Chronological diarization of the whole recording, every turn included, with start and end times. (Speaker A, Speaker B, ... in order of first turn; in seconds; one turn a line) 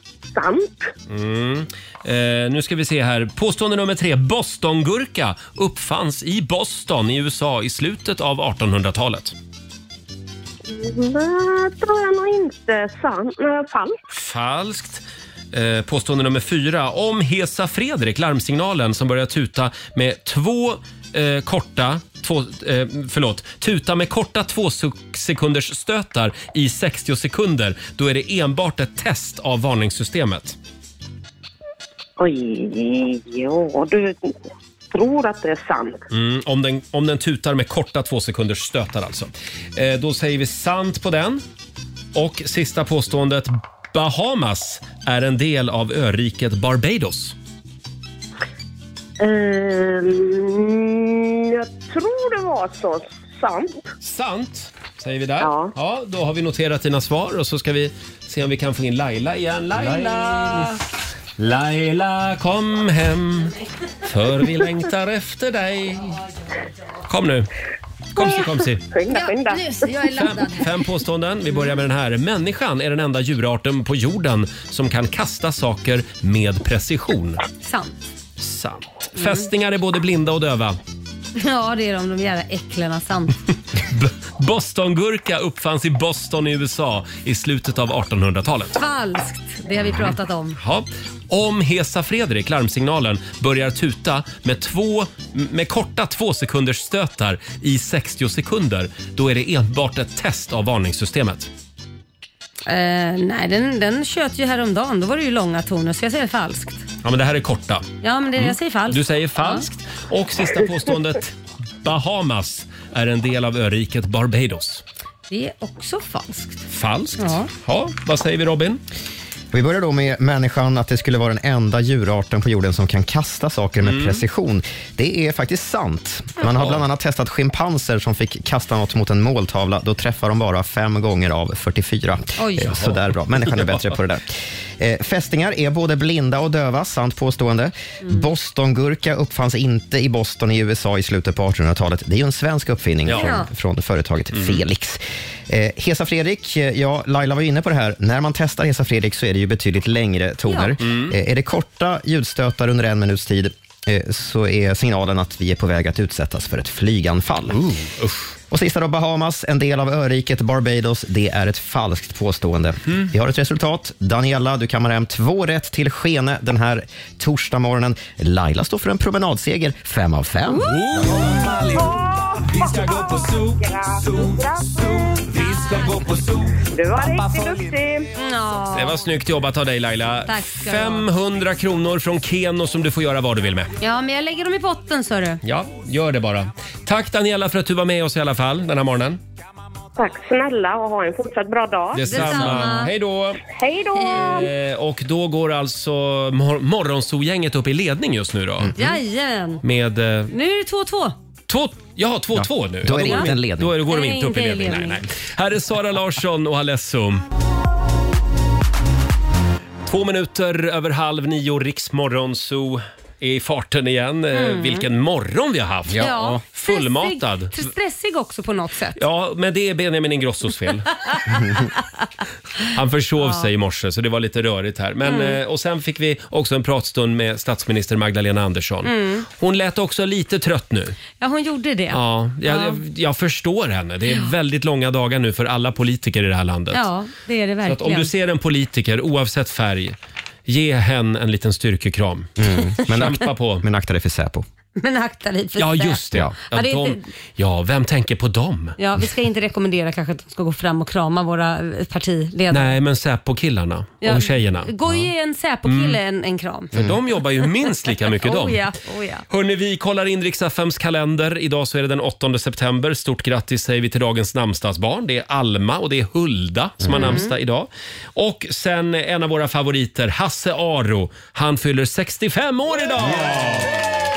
Speaker A: 0.3-0.9
Speaker B: 1.1-9.3
Speaker A: 10.7-14.0
Speaker B: 14.1-30.6
Speaker A: 32.2-34.4
Speaker A: 34.9-36.0
Speaker B: 36.1-41.4
Speaker B: 42.1-47.4
Speaker A: 49.2-53.9
Speaker B: 54.0-60.8
Speaker A: 55.4-55.7
Speaker B: 61.4-66.2
Speaker B: 67.1-67.5
Speaker B: 68.2-68.9
Speaker A: 68.2-70.0
Speaker C: 69.1-70.7
Speaker B: 70.2-77.4
Speaker C: 77.6-78.0
Speaker B: 78.4-80.8
Speaker C: 79.2-79.5
Speaker C: 81.4-83.4
Speaker B: 83.8-88.8
Speaker C: 88.8-90.6
Speaker B: 89.9-101.5
Speaker C: 102.7-106.8
Speaker B: 107.0-107.9
Speaker C: 108.0-109.7
Speaker B: 108.4-114.8
Speaker C: 115.3-116.6
Speaker B: 116.7-118.8
Speaker C: 117.2-117.5
Speaker D: 119.5-157.7
Speaker B: 123.8-124.2
Speaker B: 126.5-126.8
Speaker C: 132.4-132.8
Speaker B: 132.7-133.9
Speaker B: 143.1-143.3
Speaker C: 143.2-143.5
Speaker B: 144.3-144.6
Speaker C: 150.5-150.8
Speaker B: 150.8-151.1
Speaker B: 157.5-158.3
Speaker D: 158.5-171.2
Speaker C: 170.5-170.8
Speaker B: 170.7-171.2
Speaker E: 171.2-171.8
Speaker A: 171.7-175.2
Speaker E: 172.6-173.5
Speaker E: 175.5-176.2
Speaker A: 176.7-178.1
Speaker C: 178.2-179.0
Speaker B: 178.7-183.7
Speaker C: 180.3-181.1
Speaker C: 183.8-185.4
Speaker B: 185.4-189.2
Speaker A: 190.0-192.6
Speaker B: 191.9-193.4
Speaker C: 192.1-192.9
Speaker A: 193.4-194.5
Speaker C: 194.0-194.4
Speaker B: 194.2-198.7
Speaker D: 198.6-199.0
Speaker C: 198.8-199.6
Speaker B: 199.6-200.3
Speaker C: 200.3-201.2
Speaker B: 201.5-207.2
Speaker D: 202.3-203.8
Speaker C: 202.9-203.3
Speaker C: 203.9-205.0
Speaker B: 209.9-217.7
Speaker C: 214.3-214.9
Speaker D: 215.9-216.4
Speaker C: 216.0-219.0
Speaker B: 219.0-220.9
Speaker C: 221.1-221.7
Speaker B: 222.7-231.0
Speaker C: 223.2-223.5
Speaker C: 225.0-225.4
Speaker C: 228.8-229.3
Speaker C: 231.2-232.8
Speaker B: 231.9-236.9
Speaker C: 236.7-238.1
Speaker B: 237.7-240.0
Speaker B: 240.5-242.3
Speaker D: 242.4-244.4
Speaker B: 242.9-243.6
Speaker C: 244.8-247.1
Speaker B: 245.6-248.8
Speaker C: 248.8-252.8
Speaker B: 252.5-254.7
Speaker C: 254.0-256.7
Speaker B: 255.7-256.0
Speaker B: 256.7-258.8
Speaker C: 258.2-259.2
Speaker B: 259.3-273.9
Speaker D: 266.8-267.2
Speaker C: 266.9-267.3
Speaker D: 273.0-273.8